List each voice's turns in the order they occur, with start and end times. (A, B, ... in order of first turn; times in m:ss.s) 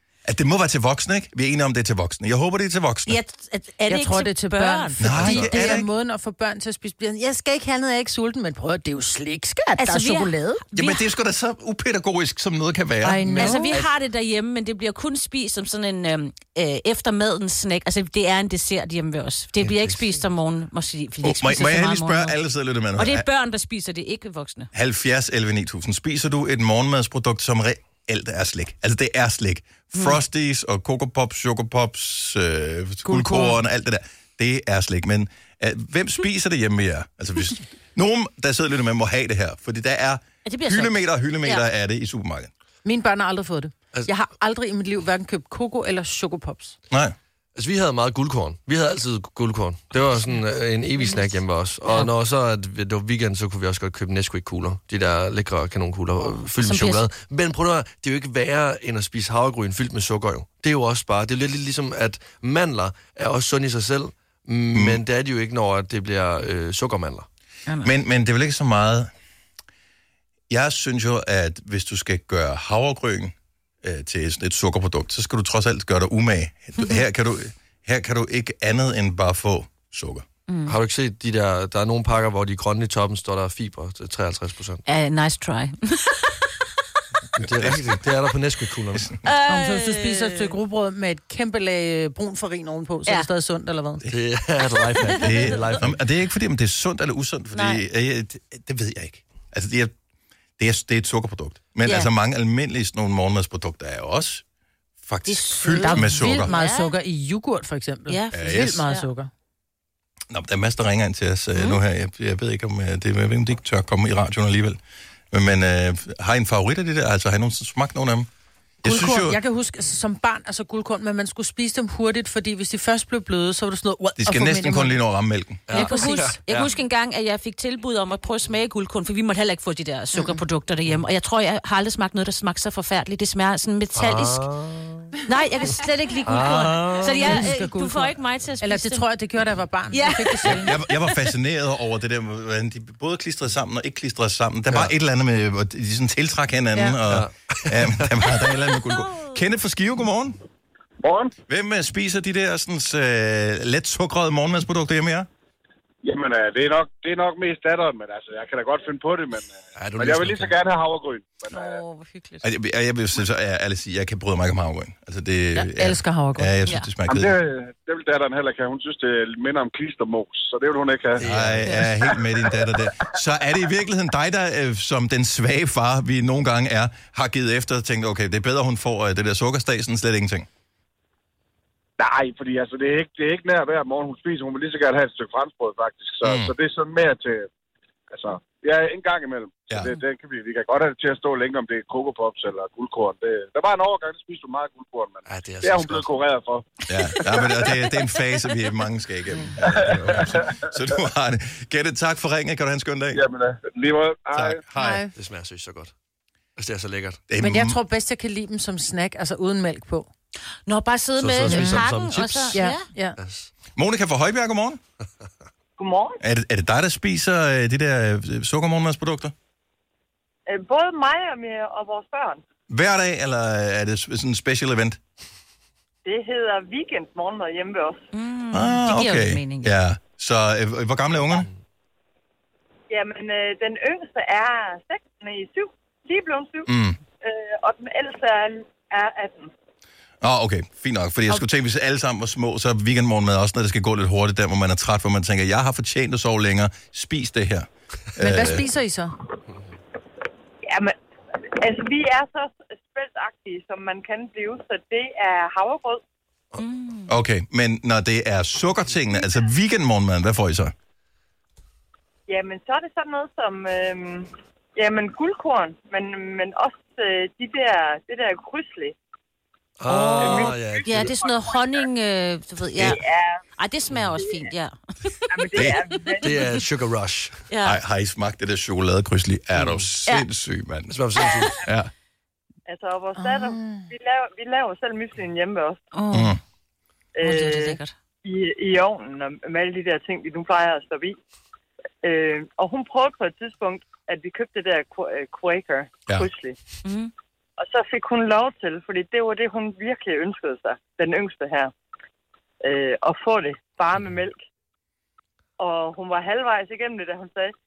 0:00.2-0:03.2 A
0:03.1-0:05.8 B
0:03.9-0:10.6 C
0:05.0-0:05.9 A
0:09.8-0:11.0 B
0:10.7-0:13.8 A
0:13.0-0:13.8 C
0:13.4-0:22.4 B
0:19.6-0:19.9 D
0:21.2-0:23.3 A
0:23.0-0:24.7 B
0:24.7-0:42.5 A
0:33.0-0:33.6 C
0:40.5-0:41.6 B
0:42.8-0:46.8 C
0:46.9-0:47.2 A
0:47.6-1:07.3 D
0:51.0-0:52.1 B
0:56.6-0:57.1 B
1:04.7-1:05.0 A
1:07.8-1:09.1 A
1:10.5-1:20.3 A
1:20.5-1:20.8 B
1:20.7-1:24.8 D
1:24.9-1:26.4 B
1:27.4-1:29.2 D
1:27.5-1:28.0 A
1:29.2-1:30.6 B
1:29.5-1:34.1 C
1:34.1-1:36.0 D
1:35.1-1:39.9 A
1:37.5-1:37.8 B
1:40.6-1:44.4 A
1:41.8-1:42.1 B
1:45.0-1:46.5 A
1:45.3-1:46.9 B
1:45.8-1:49.3 C
1:48.1-1:49.1 B
1:48.3-1:48.8 A
1:50.3-1:54.8 A
1:55.3-1:58.3 A
1:58.8-1:59.4 A
1:58.8-2:05.0 C
2:04.2-2:05.7 A
2:05.7-2:06.7 D
2:05.7-2:06.4 C
2:05.7-2:14.5 B
2:14.0-2:15.2 D
2:15.3-2:19.1 B
2:16.3-2:17.5 D
2:17.0-2:20.7 C
2:19.9-2:20.8 B
2:20.5-2:30.4 A
2:27.1-2:28.3 D
2:28.9-2:29.4 B
2:31.0-2:31.3 E
2:31.5-2:35.3 A
2:36.0-2:41.8 E
2:39.8-2:40.6 D
2:41.5-2:42.4 B
2:42.4-2:47.3 A
2:45.6-2:46.5 C
2:47.1-2:51.3 E
2:51.2-3:00.5 A
2:51.2-2:51.9 D
3:02.0-3:07.5 E
3:06.2-3:06.5 A
3:08.1-3:16.7 E
3:15.3-3:16.1 D
3:16.9-3:23.2 A
3:19.6-3:20.7 E
3:19.8-3:20.3 D
3:23.1-3:24.6 E
3:24.3-3:25.0 A
3:24.8-3:25.1 C
3:25.2-3:25.9 D
3:26.6-3:27.2 D
3:27.3-3:27.8 A
3:27.4-3:30.1 C
3:30.7-3:32.8 B
3:31.2-3:32.6 D
3:31.5-3:31.9 C
3:32.5-3:33.2 C
3:33.2-3:33.5 D
3:33.8-3:34.8 A
3:35.8-3:36.2 F
3:36.2-3:39.3 A
3:40.5-3:42.4 F
3:42.7-3:45.0 A
3:46.0-3:48.1 F
3:48.1-3:49.7 B
3:48.5-3:51.5 A
3:51.2-3:51.6 D
3:52.9-3:56.7 F
3:56.7-3:57.0 A
3:57.2-3:59.5 F
4:00.2-4:08.6 A
4:08.2-4:09.1 C
4:10.6-4:11.0 F
4:11.6-4:16.0 F
4:16.6-4:17.1 B
4:17.1-4:20.7 A
4:22.3-4:29.0 F
4:29.8-4:31.2 D
4:29.9-4:33.0 B
4:30.2-4:31.6 F
4:32.8-4:33.4 F
4:33.6-4:35.2 B
4:35.3-4:36.6 F
4:35.6-4:35.8 A
4:36.2-4:37.4 D
4:37.5-4:37.8 B
4:37.6-4:41.0 A
4:39.6-4:39.9 D
4:40.9-4:41.6 D
4:41.5-4:41.9 A
4:42.7-4:45.8 F
4:43.2-4:43.9 C
4:45.9-4:46.4 B
4:46.1-4:46.4 A
4:47.2-4:51.2 F
4:47.2-4:47.9 B
4:52.0-4:56.6 F
4:56.8-4:57.1 B
4:57.6-5:01.7 F
5:02.6-5:04.4 F
5:05.6-5:07.5 F